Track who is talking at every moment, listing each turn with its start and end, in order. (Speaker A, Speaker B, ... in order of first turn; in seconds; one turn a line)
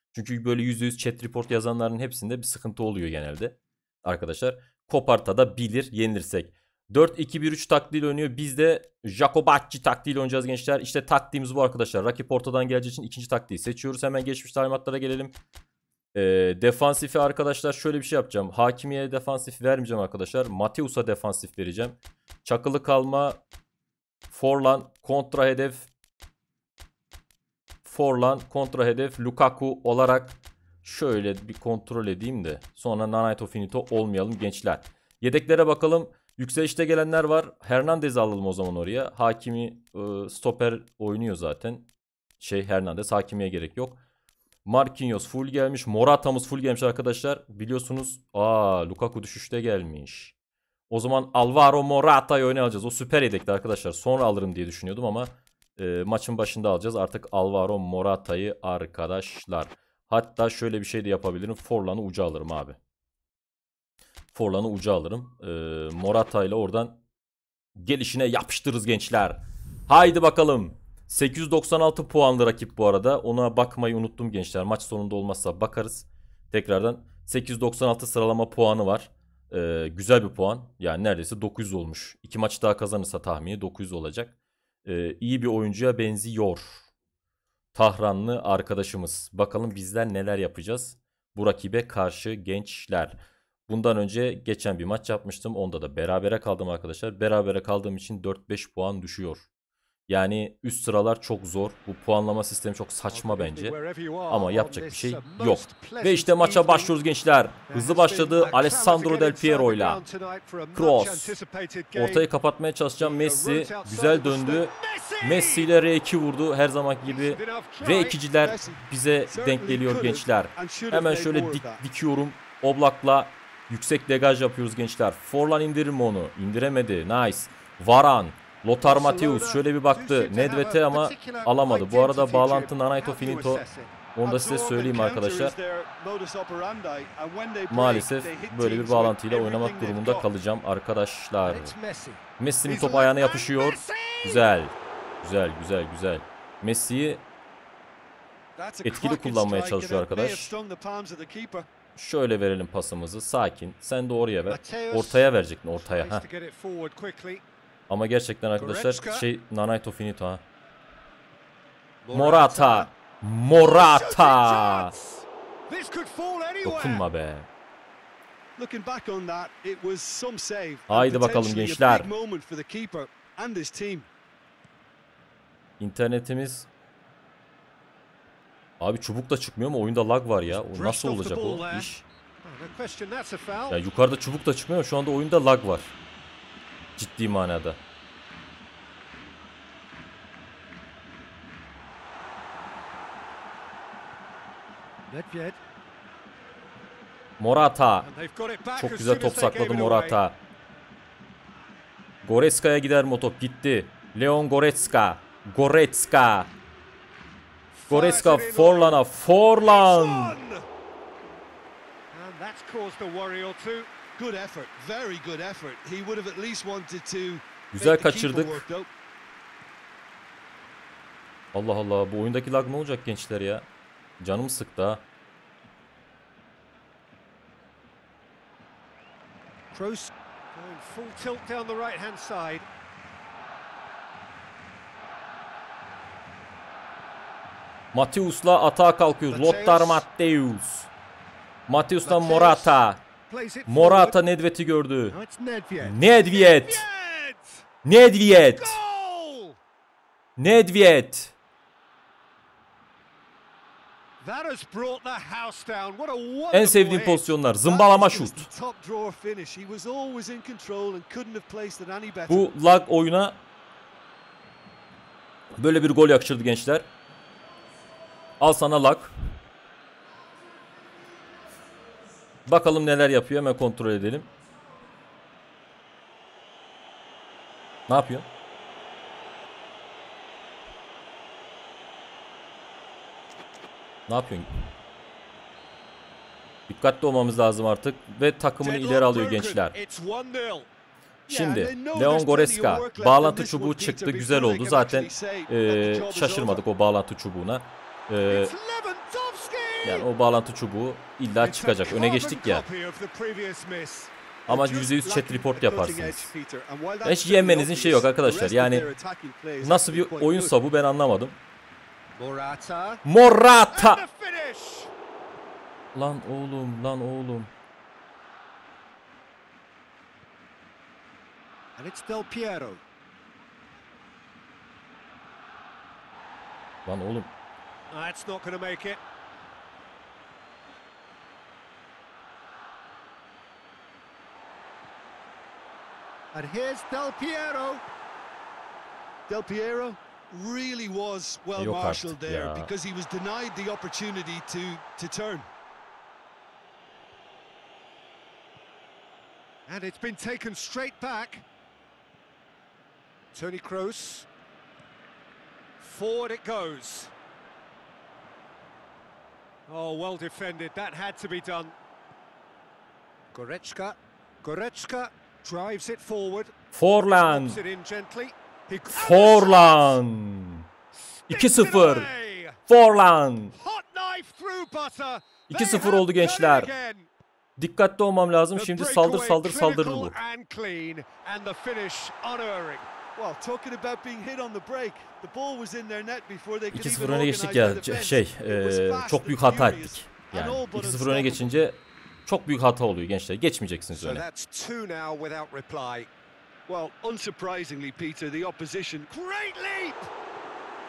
Speaker A: 0.1-15.3
Speaker A: 16.1-23.4
Speaker A: 24.3-25.9
Speaker A: 27.9-44.0
Speaker A: 44.6-50.4
Speaker A: 50.9-62.8
Speaker A: 64.3-67.0
Speaker A: 67.8-86.9
Speaker A: 87.7-99.5
Speaker A: 100.1-103.8
Speaker B: 103.1-107.0
Speaker A: 104.3-110.0
Speaker B: 107.7-112.3
Speaker A: 110.7-111.4
Speaker A: 111.9-135.6
Speaker B: 112.9-115.7
Speaker B: 117.0-118.2
Speaker C: 118.4-121.8
Speaker B: 128.8-133.9
Speaker C: 134.2-140.3
Speaker A: 137.7-141.7
Speaker B: 141.4-144.5
Speaker A: 142.4-147.2
Speaker C: 148.6-151.7
Speaker A: 148.8-150.5
Speaker A: 152.0-156.2
Speaker B: 154.5-157.4
Speaker A: 157.9-160.4
Speaker B: 158.6-159.3
Speaker B: 162.0-162.9
Speaker A: 162.1-164.9
Speaker B: 163.5-167.1
Speaker A: 166.6-167.5
Speaker C: 168.6-174.1
Speaker A: 170.9-172.1
Speaker A: 175.8-176.7
Speaker A: 178.8-182.1
Speaker B: 180.5-181.9
Speaker B: 182.4-183.8
Speaker A: 183.7-185.9
Speaker A: 187.0-187.8
Speaker B: 195.1-195.6
Speaker A: 197.4-198.1
Speaker B: 198.0-200.2
Speaker A: 198.8-200.4
Speaker A: 202.2-206.5
Speaker B: 207.8-209.0
Speaker A: 207.9-210.4
Speaker B: 209.6-210.7
Speaker B: 212.1-213.9
Speaker C: 214.2-218.9
Speaker A: 217.7-218.7
Speaker A: 221.5-223.7
Speaker A: 224.2-225.1
Speaker B: 229.7-232.7
Speaker A: 237.9-240.9
Speaker B: 239.3-240.1
Speaker A: 241.7-243.0
Speaker B: 242.0-242.8
Speaker B: 243.3-244.2
Speaker A: 243.7-245.2
Speaker B: 245.1-247.7
Speaker A: 245.8-246.8
Speaker A: 247.8-248.8
Speaker B: 248.3-249.6
Speaker A: 250.4-251.4
Speaker B: 254.2-257.4
Speaker A: 256.5-258.5
Speaker C: 257.7-262.5
Speaker A: 262.3-263.4
Speaker A: 265.6-266.9
Speaker A: 268.4-269.1
Speaker A: 272.5-274.3
Speaker A: 277.9-278.3
Speaker A: 284.1-284.5
Speaker A: 286.7-289.8
Speaker B: 288.6-290.7
Speaker C: 291.3-296.6
Speaker A: 291.3-298.5
Speaker B: 298.2-300.1
Speaker A: 299.8-302.6
Speaker B: 301.4-304.1
Speaker A: 304.5-306.3
Speaker C: 304.5-310.5
Speaker A: 307.0-308.9
Speaker A: 309.6-311.4
Speaker B: 312.2-313.0
Speaker A: 313.1-314.0
Speaker B: 313.7-314.9
Speaker A: 315.9-317.5
Speaker B: 321.8-322.8
Speaker A: 326.9-327.3
Speaker B: 327.9-329.0
Speaker B: 336.3-337.8
Speaker C: 339.3-345.5
Speaker A: 341.6-342.7
Speaker B: 349.7-351.4
Speaker B: 353.3-354.3
Speaker B: 355.8-357.1
Speaker B: 359.7-361.8
Speaker B: 363.3-366.5
Speaker A: 366.7-367.6
Speaker B: 367.1-370.0
Speaker A: 368.9-370.6
Speaker B: 370.9-372.6
Speaker A: 371.3-372.1
Speaker A: 372.7-373.5
Speaker B: 373.5-377.1
Speaker A: 375.5-376.7
Speaker A: 377.6-380.2
Speaker B: 378.6-382.9
Speaker C: 383.2-391.5
Speaker A: 386.7-394.2
Speaker B: 393.9-396.1
Speaker C: 396.7-399.1
Speaker B: 399.1-400.1